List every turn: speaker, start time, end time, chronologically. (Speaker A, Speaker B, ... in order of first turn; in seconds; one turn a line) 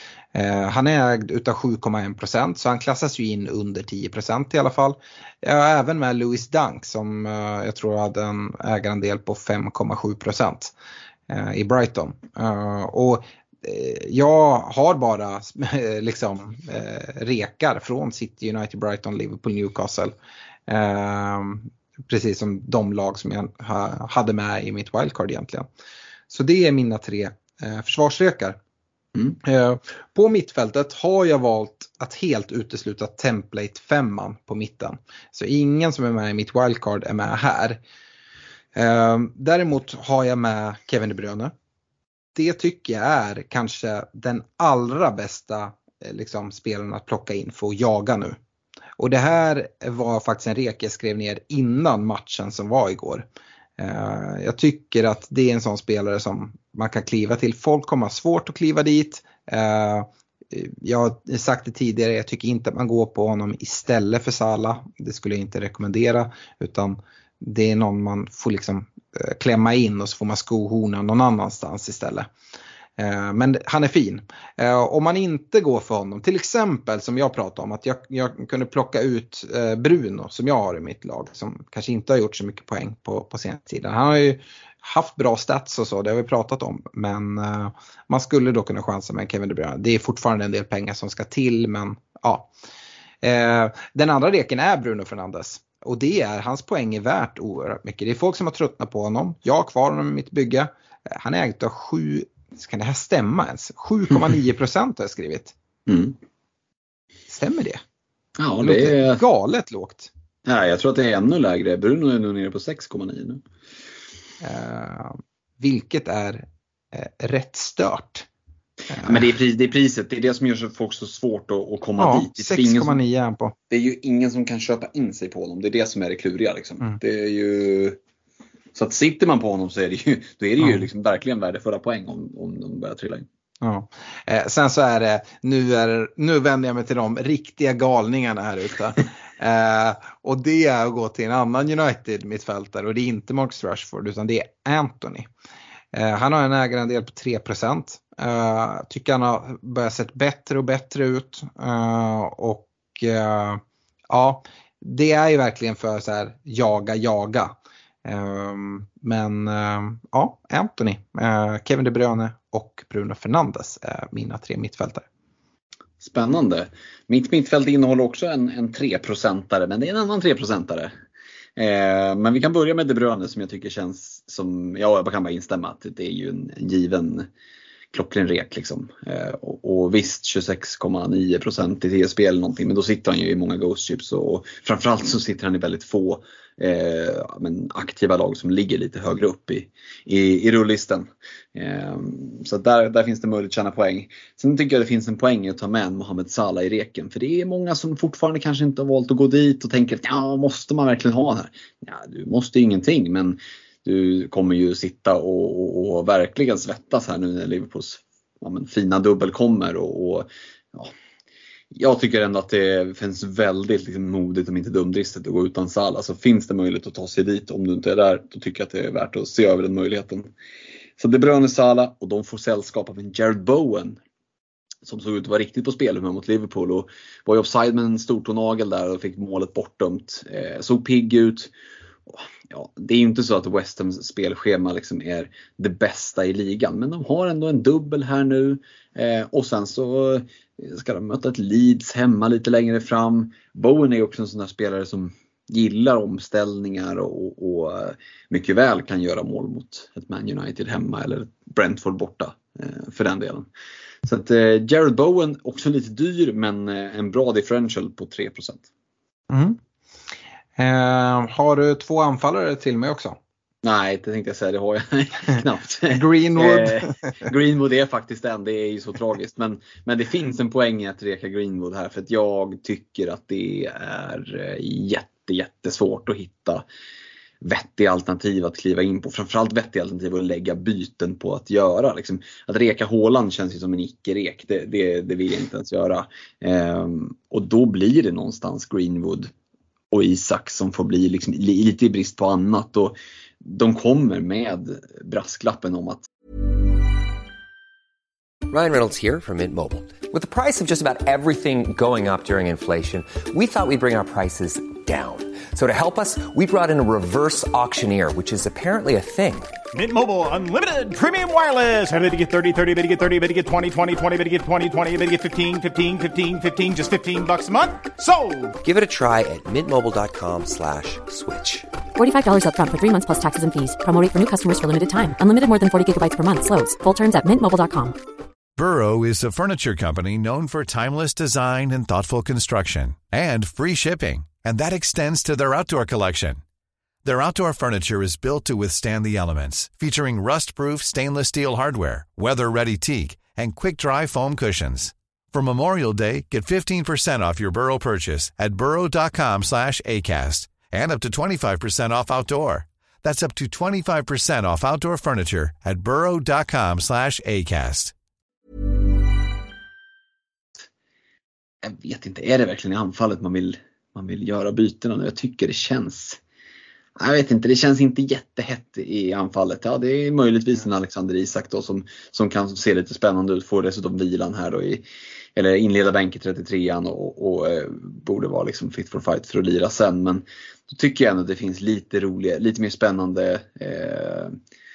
Speaker A: 0.3-10.7
Speaker A: 11.3-20.1
Speaker A: 20.7-25.7
Speaker A: 26.3-28.6
Speaker A: 29.4-37.8
Speaker A: 38.8-41.5
Speaker A: 42.4-48.4
Speaker A: 49.0-53.3
Speaker A: 53.8-72.3
Speaker A: 73.0-92.5
Speaker A: 93.2-105.5
Speaker B: 105.9-106.2
Speaker A: 107.3-107.8
Speaker B: 108.4-109.2
Speaker A: 108.6-110.1
Speaker B: 110.5-113.4
Speaker A: 114.4-118.3
Speaker A: 118.9-119.2
Speaker B: 119.0-123.0
Speaker A: 122.0-123.5
Speaker B: 123.7-128.0
Speaker B: 128.7-133.3
Speaker A: 133.6-145.3
Speaker A: 145.9-165.1
Speaker B: 166.0-170.9
Speaker B: 171.6-177.3
Speaker B: 177.9-210.9
Speaker B: 211.7-220.3
Speaker B: 221.0-224.0
Speaker B: 224.8-231.5
Speaker B: 232.1-253.5
Speaker B: 254.1-258.7
Speaker A: 259.3-259.6
Speaker A: 260.6-263.2
Speaker B: 263.6-276.6
Speaker A: 265.9-266.9
Speaker B: 277.4-289.3
Speaker B: 289.9-296.1
Speaker C: 298.5-309.6
Speaker D: 309.7-318.6
Speaker C: 318.6-321.7
Speaker E: 322.0-328.0
Speaker F: 328.6-336.4
Speaker F: 337.1-357.9
Speaker B: 361.6-366.2
Speaker B: 367.0-374.8
Speaker B: 375.4-384.4